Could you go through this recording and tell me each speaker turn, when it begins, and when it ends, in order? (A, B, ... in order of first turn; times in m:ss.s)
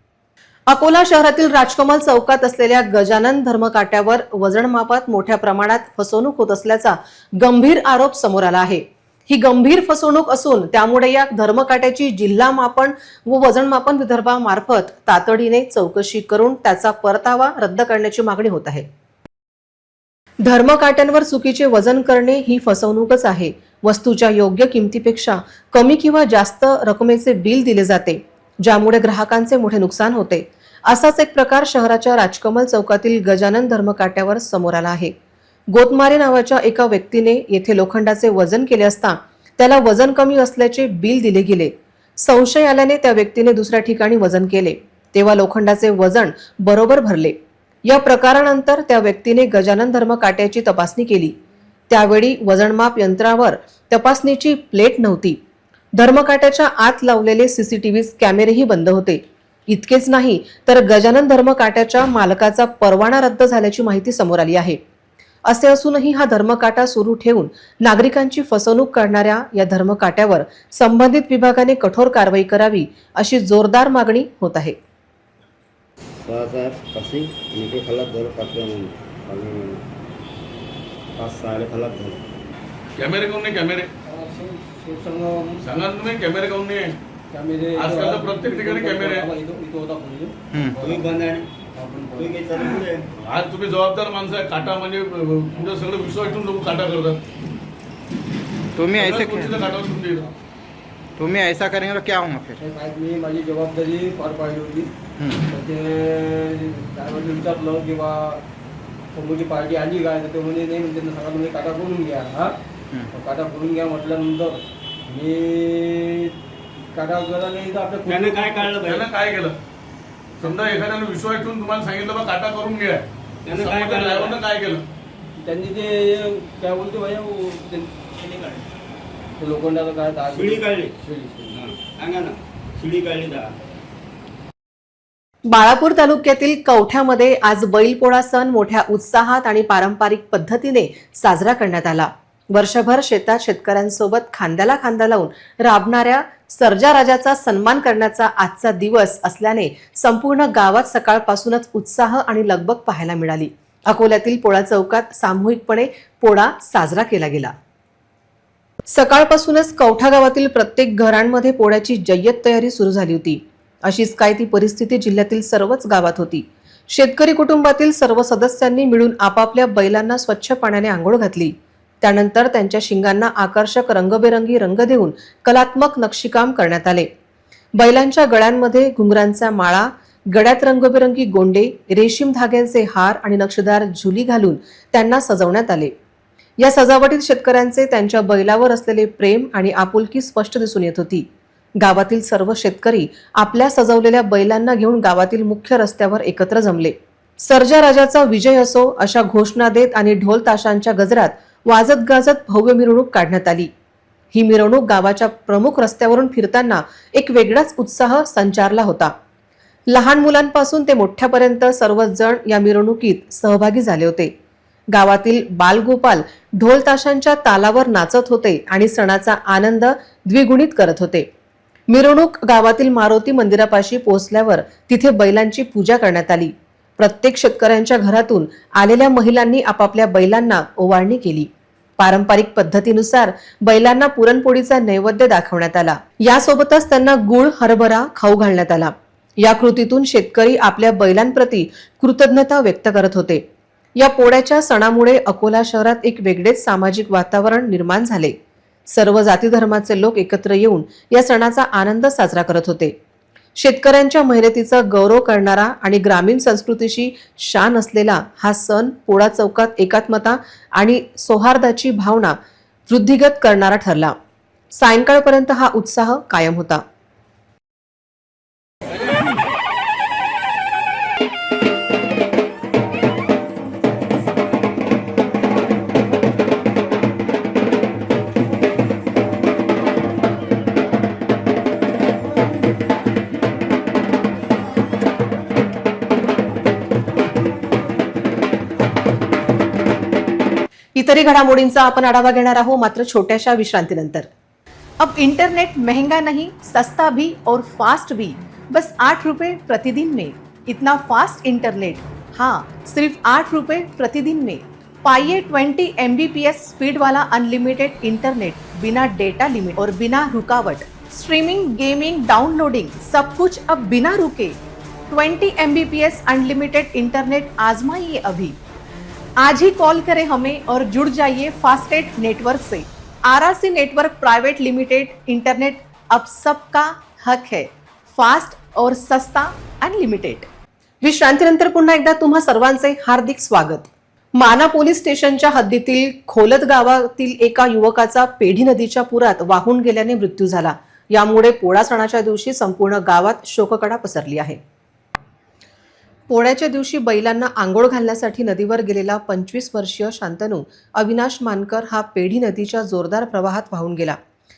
0:00.7-0:18.9 A
0:20.4-0:35.1 A
0:35.7-0:51.3 A
0:51.9-0:55.4 A
0:55.9-1:04.8 A
1:05.4-1:14.8 A
1:16.2-1:19.8 B
1:21.2-1:22.2 B
1:23.0-1:23.9 C
1:24.0-1:25.6 D
1:25.6-1:27.0 C
1:27.3-1:31.1 D
1:27.8-1:29.2 C
1:30.8-1:31.4 B
1:31.8-1:32.5 D
1:32.2-1:33.1 B
1:33.2-1:37.2 C
1:38.8-1:39.5 E
1:38.9-1:40.3 C
1:41.2-1:42.6 E
1:42.6-1:44.9 D
1:45.2-1:45.4 E
1:45.5-1:48.4 D
1:49.1-1:52.5 D
1:53.1-1:56.3 D
1:56.9-1:58.8 D
1:58.0-1:59.1 B
1:58.8-1:59.6 C
2:00.4-2:04.8 C
2:03.4-2:04.4 B
2:05.4-2:08.3 D
2:09.4-2:11.6 D
2:10.3-2:11.0 B
2:11.5-2:13.5 B
2:15.5-2:37.5 A
2:38.9-2:57.1 A
2:57.7-3:05.9 A
3:06.6-3:11.2 A
3:11.8-3:23.7 A
3:24.3-3:29.1 A
3:29.9-3:34.3 A
3:34.9-3:41.3 A
3:41.9-4:03.4 A
4:04.0-4:08.4 A
4:08.9-4:12.9 A
4:13.6-4:22.4 A
4:22.9-4:24.2 A
4:24.7-4:26.8 A
4:51.0-4:54.3 A
4:55.0-5:14.6 F
5:15.1-5:18.6 F
5:19.4-5:30.5 F
5:31.0-5:44.6 A
5:46.3-5:54.2 A